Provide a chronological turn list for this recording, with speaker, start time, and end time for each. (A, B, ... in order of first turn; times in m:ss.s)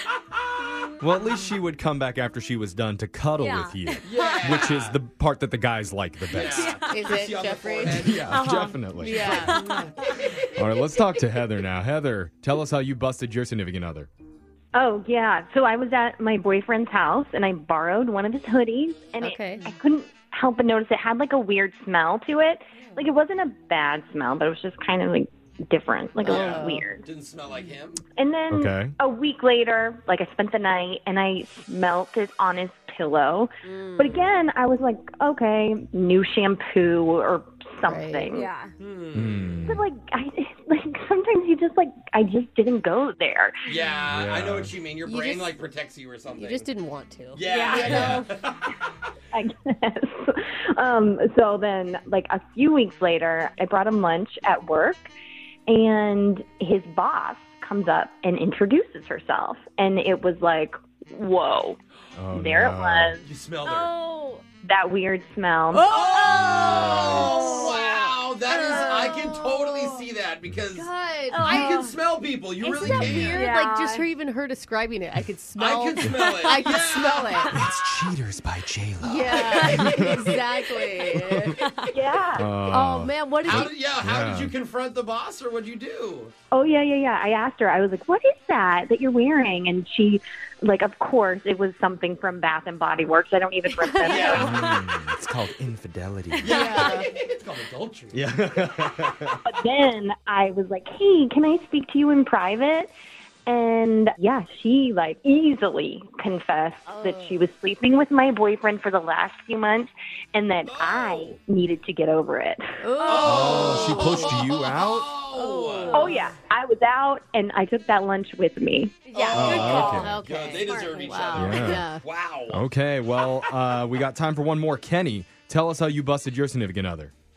0:01.0-0:06.8 A
0:03.4-0:04.4 B
0:04.0-0:05.0 C
0:06.3-0:08.3 C
0:06.4-0:07.0 B
0:06.8-0:08.2 D
0:07.9-0:09.5 A
0:08.3-0:10.2 B
0:09.0-0:09.6 D
0:09.2-0:10.3 C
0:10.5-0:14.1 A
0:14.7-0:27.0 E
0:19.2-0:19.7 D
0:26.2-0:26.8 D
0:26.2-0:28.0 C
0:28.1-0:38.5 E
0:28.5-0:28.9 A
0:33.6-0:34.3 D
0:37.8-0:38.4 D
0:38.3-0:38.7 B
0:38.8-0:39.6 C
0:39.1-0:39.8 A
0:39.6-0:43.6 E
0:43.6-0:46.7 C
0:44.1-0:44.7 A
0:45.0-0:45.6 D
0:46.4-0:48.2 D
0:47.3-0:48.7 C
0:47.4-0:48.3 B
0:49.3-0:55.1 E
0:55.7-1:01.8 E
1:02.2-1:03.1 A
1:02.3-1:03.2 E
1:03.2-1:03.9 C
1:03.6-1:04.4 B
1:04.6-1:05.8 E
1:05.8-1:10.0 B
1:05.9-1:13.4 C
1:06.2-1:07.8 D
1:08.5-1:09.4 D
1:10.7-1:11.9 D
1:11.3-1:12.0 B
1:12.6-1:17.5 D
1:12.8-1:13.4 A
1:13.3-1:14.1 B
1:15.6-1:17.6 C
1:17.5-1:20.4 A
1:19.0-1:21.6 D
1:19.3-1:20.0 C
1:19.5-1:20.0 B
1:21.2-1:21.6 A
1:21.6-1:21.9 B
1:21.9-1:22.5 E
1:22.4-1:24.5 A
1:22.7-1:23.7 D
1:23.4-1:26.3 C
1:26.5-1:34.5 E
1:33.8-1:34.4 D
1:33.9-1:34.5 B
1:34.0-1:34.5 C
1:34.4-1:36.5 A
1:36.4-1:38.2 C
1:36.4-1:37.1 D
1:36.4-1:37.0 B
1:38.1-1:39.4 A
1:39.4-1:42.9 E
1:43.4-1:52.8 E
1:47.0-1:47.3 D
1:47.0-1:47.3 B
1:50.7-1:51.4 C
1:52.8-1:54.3 D
1:53.0-1:53.8 B
1:53.0-1:56.1 C
1:53.2-1:55.1 A
1:55.4-1:56.3 D
1:55.6-1:56.3 B
1:55.9-1:59.0 E
1:59.0-2:01.5 B
1:59.1-2:02.6 C
1:59.3-2:00.2 A
1:59.6-2:02.0 D
2:01.4-2:01.8 A
2:02.5-2:07.1 A